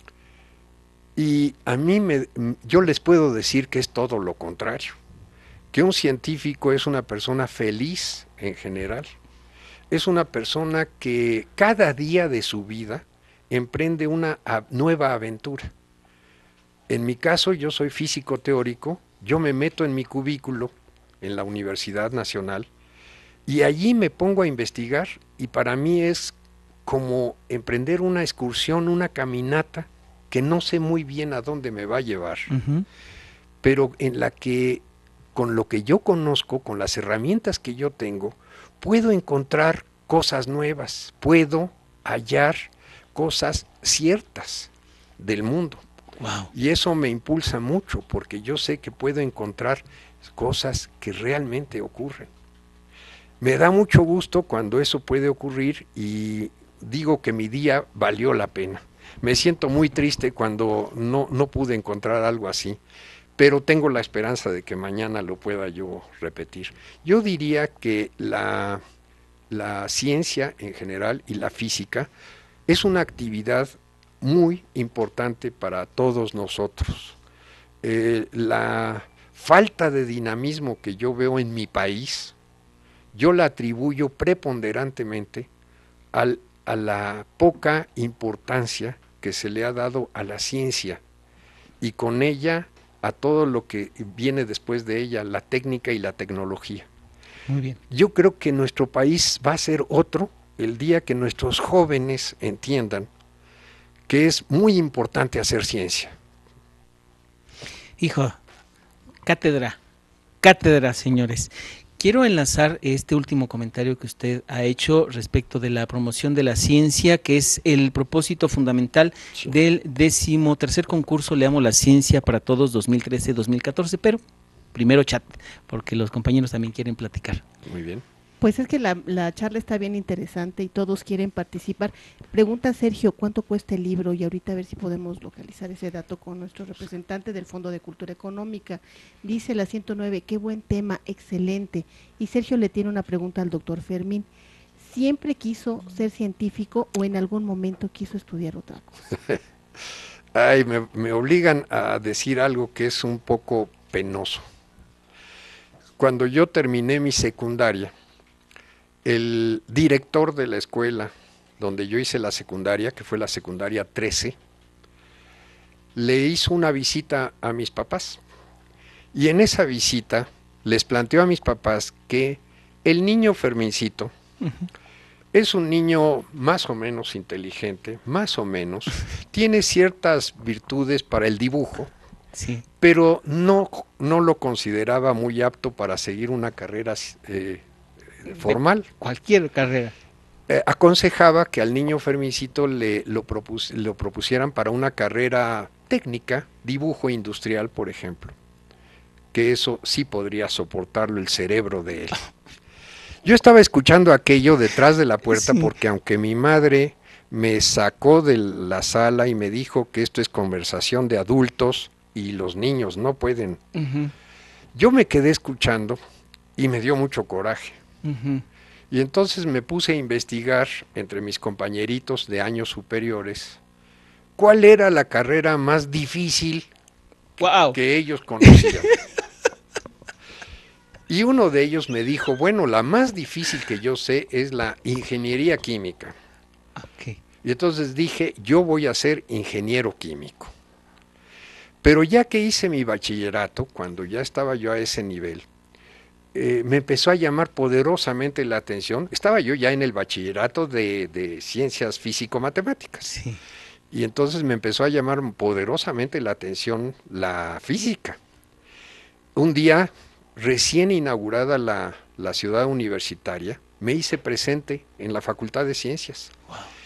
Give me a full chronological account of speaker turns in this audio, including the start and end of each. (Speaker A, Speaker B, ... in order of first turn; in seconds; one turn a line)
Speaker A: 1.2-5.0
Speaker A: 5.7-9.1
Speaker A: 9.9-15.7
Speaker A: 16.9-22.7
Speaker A: 23.5-32.5
Speaker B: 32.5-32.9
Speaker A: 33.6-34.8
Speaker A: 35.4-45.8
Speaker B: 46.2-46.5
Speaker A: 46.5-52.3
Speaker A: 53.4-62.8
Speaker A: 63.4-68.8
Speaker A: 69.5-72.1
Speaker A: 72.7-77.2
Speaker A: 77.8-82.3
Speaker A: 83.1-85.5
Speaker A: 86.1-91.0
Speaker A: 91.8-96.9
Speaker B: 97.5-97.8
Speaker A: 97.9-103.1
Speaker A: 104.1-106.2
Speaker B: 108.0-108.4
Speaker B: 109.2-109.8
Speaker B: 110.4-124.2
Speaker B: 124.7-127.5
Speaker A: 127.6-128.1
Speaker C: 128.4-144.3
Speaker C: 144.8-149.1
Speaker A: 150.3-154.4
Speaker A: 156.0-157.9
Speaker A: 159.1-164.4
Speaker A: 165.9-168.2
Speaker A: 169.1-174.1
Speaker B: 174.4-174.7
Speaker A: 175.3-181.9
Speaker B: 182.3-182.7
Speaker A: 182.8-188.9
Speaker B: 188.3-189.9
Speaker A: 190.5-198.4
Speaker A: 199.3-202.2
Speaker A: 203.2-213.6
Speaker B: 205.4-205.7
Speaker B: 213.8-214.1
Speaker A: 214.8-216.0
Speaker A: 216.6-217.8
Speaker B: 218.0-218.4
Speaker A: 218.9-223.6
Speaker A: 224.4-226.7
Speaker B: 227.4-227.8
Speaker A: 227.5-229.0
Speaker B: 228.4-229.0
Speaker A: 231.1-236.2
Speaker B: 236.8-237.2
Speaker A: 237.4-240.5
Speaker A: 241.8-245.5
Speaker A: 246.3-253.1
Speaker B: 253.1-253.4
Speaker A: 253.9-258.2
Speaker A: 259.4-266.3